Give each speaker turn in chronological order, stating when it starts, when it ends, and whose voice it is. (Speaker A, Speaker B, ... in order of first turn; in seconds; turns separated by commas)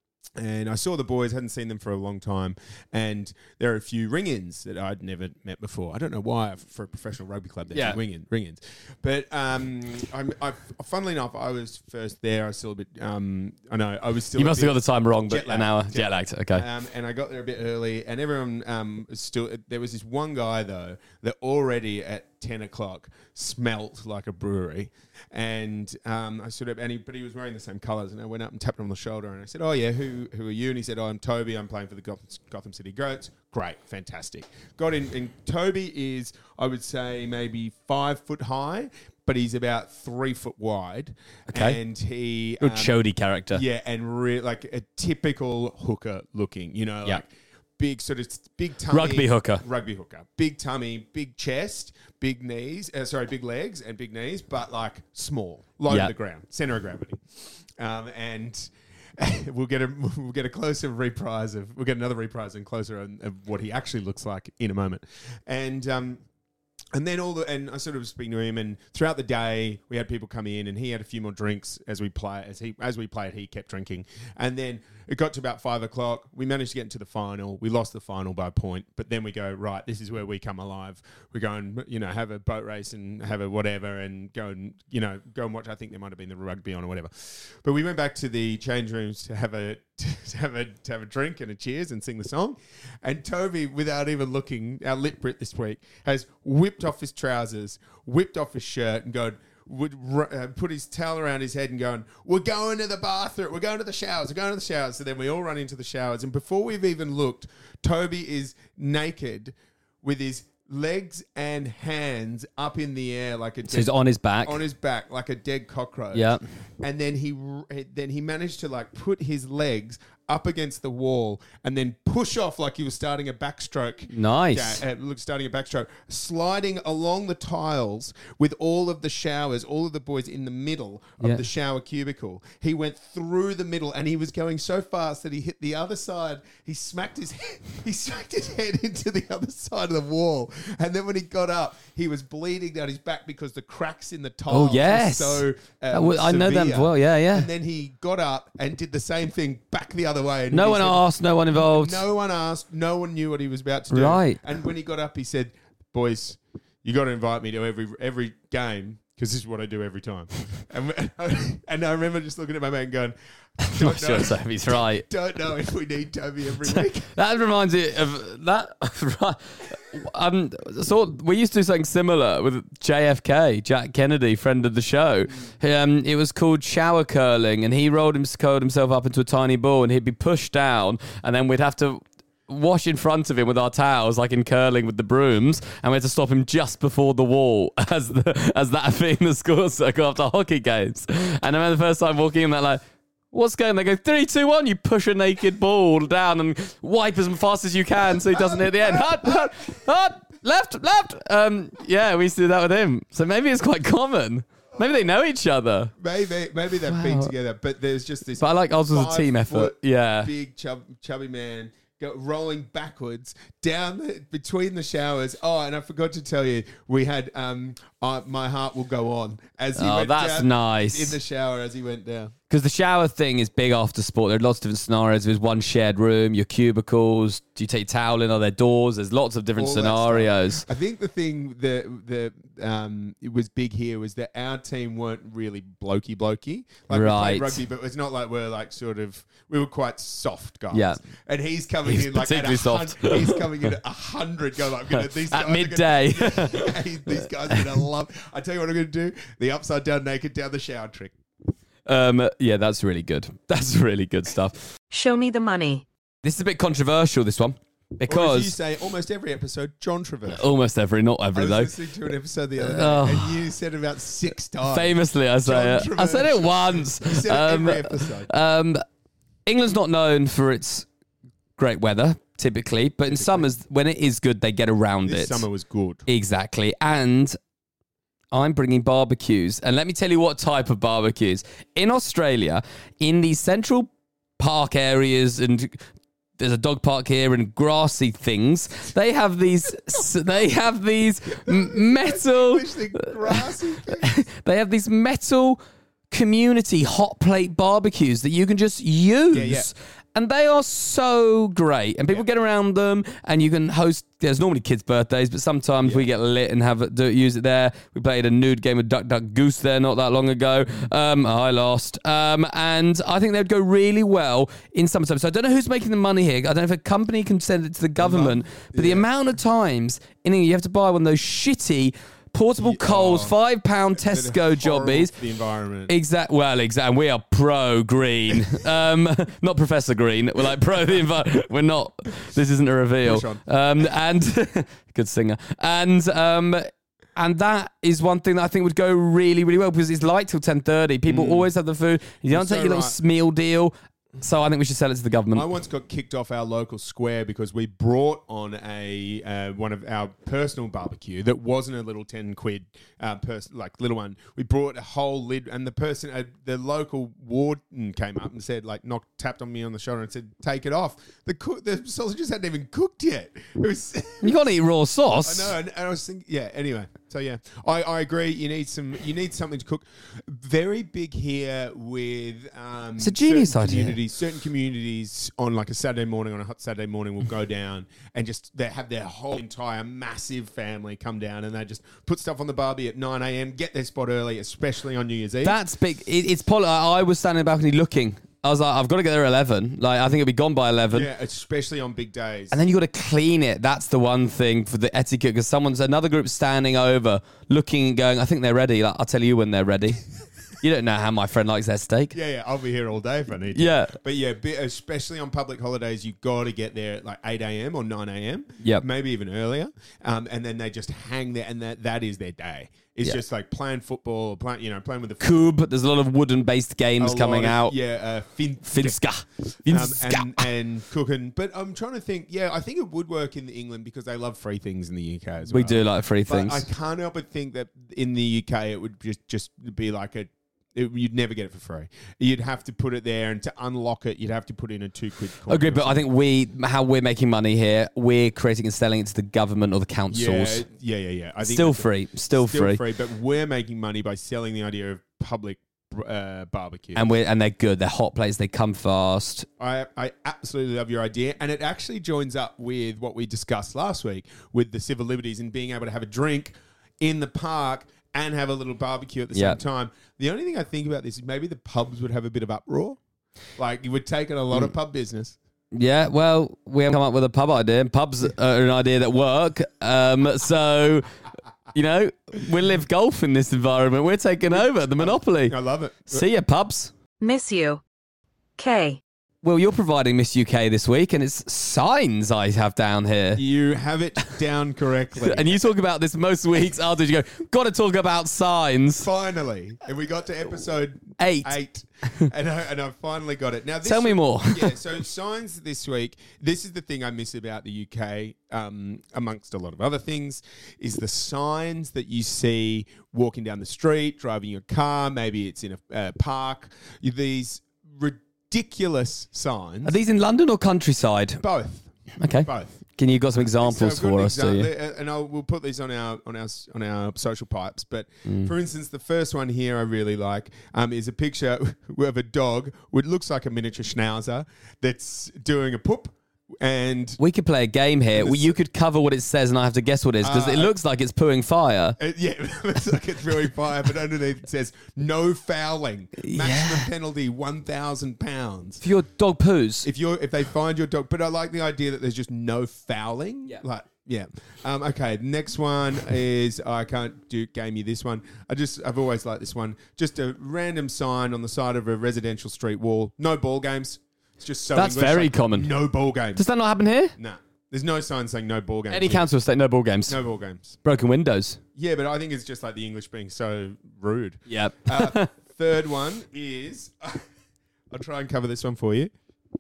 Speaker A: 0.4-43.0, Speaker B: 7.7-8.0, Speaker B: 14.3-16.6, Speaker B: 41.5-41.8, Speaker B: 42.6-43.6, Speaker A: 43.5-57.2, Speaker B: 48.9-49.6, Speaker A: 57.8-66.2, Speaker A: 66.9-167.1, Speaker B: 113.7-114.6, Speaker B: 116.1-116.4, Speaker B: 124.1-124.8, Speaker B: 144.5-147.5, Speaker B: 150.5-152.0, Speaker B: 153.9-154.4, Speaker B: 163.7-165.1, Speaker B: 166.6-205.9, Speaker A: 198.4-199.5, Speaker A: 206.0-222.3, Speaker B: 206.9-207.3, Speaker B: 208.4-210.3, Speaker B: 219.8-221.2, Speaker B: 222.5-230.7, Speaker A: 229.6-251.2, Speaker B: 236.9-237.6, Speaker B: 240.7-241.0, Speaker B: 241.8-243.4, Speaker B: 244.9-247.8, Speaker B: 251.9-254.7, Speaker C: 254.9-255.9, Speaker B: 256.2-258.5, Speaker A: 258.1-260.4, Speaker B: 260.3-261.7, Speaker A: 261.3-268.3, Speaker B: 262.6-263.4, Speaker B: 264.7-268.8, Speaker B: 269.5-270.9, Speaker B: 271.6-275.5, Speaker A: 273.1-273.5, Speaker A: 275.1-276.1, Speaker B: 276.1-277.4, Speaker B: 278.3-285.8, Speaker B: 286.4-295.6, Speaker A: 291.4-294.1, Speaker B: 296.1-325.1, Speaker A: 299.3-299.7, Speaker A: 318.0-319.1, Speaker A: 322.6-323.4, Speaker A: 324.0-325.9, Speaker B: 325.9-345.5, Speaker A: 333.0-333.4, Speaker A: 341.1-341.5, Speaker A: 342.3-343.0, Speaker A: 345.3-364.4, Speaker B: 364.2-365.6, Speaker A: 365.2-385.6, Speaker B: 373.0-374.0, Speaker B: 385.4-391.1, Speaker A: 390.9-392.6, Speaker B: 392.5-400.0, Speaker B: 400.6-402.1, Speaker A: 402.1-415.5, Speaker B: 403.6-403.9, Speaker B: 415.2-417.8, Speaker A: 417.0-419.0, Speaker B: 418.7-420.5, Speaker A: 419.7-436.0, Speaker B: 425.5-426.7, Speaker B: 435.5-440.6, Speaker A: 440.1-447.1, Speaker B: 441.4-442.8, Speaker B: 446.9-449.5, Speaker A: 449.6-463.0, Speaker B: 459.3-459.6, Speaker A: 463.6-465.4, Speaker B: 465.7-471.1, Speaker B: 471.7-475.6, Speaker A: 474.5-476.2, Speaker B: 476.1-476.9, Speaker C: 477.2-477.8, Speaker C: 478.6-479.0, Speaker B: 479.4-483.4, Speaker A: 483.4-485.7, Speaker B: 485.2-489.1, Speaker A: 489.0-510.0, Speaker B: 491.2-491.6, Speaker B: 493.8-494.8, Speaker B: 509.9-511.4, Speaker A: 511.4-512.8, Speaker B: 512.2-514.7, Speaker A: 513.4-527.2, Speaker B: 518.3-518.5, Speaker B: 527.2-532.0, Speaker A: 528.1-528.6, Speaker A: 530.2-530.7, Speaker A: 532.0-538.8, Speaker B: 536.2-536.9, Speaker B: 538.8-539.9, Speaker A: 539.8-556.4, Speaker B: 554.7-555.7, Speaker B: 556.4-557.1, Speaker A: 557.2-559.3, Speaker B: 558.9-560.2, Speaker A: 560.1-560.8, Speaker B: 560.8-561.6, Speaker A: 561.8-567.2, Speaker B: 564.5-565.3, Speaker A: 567.9-569.1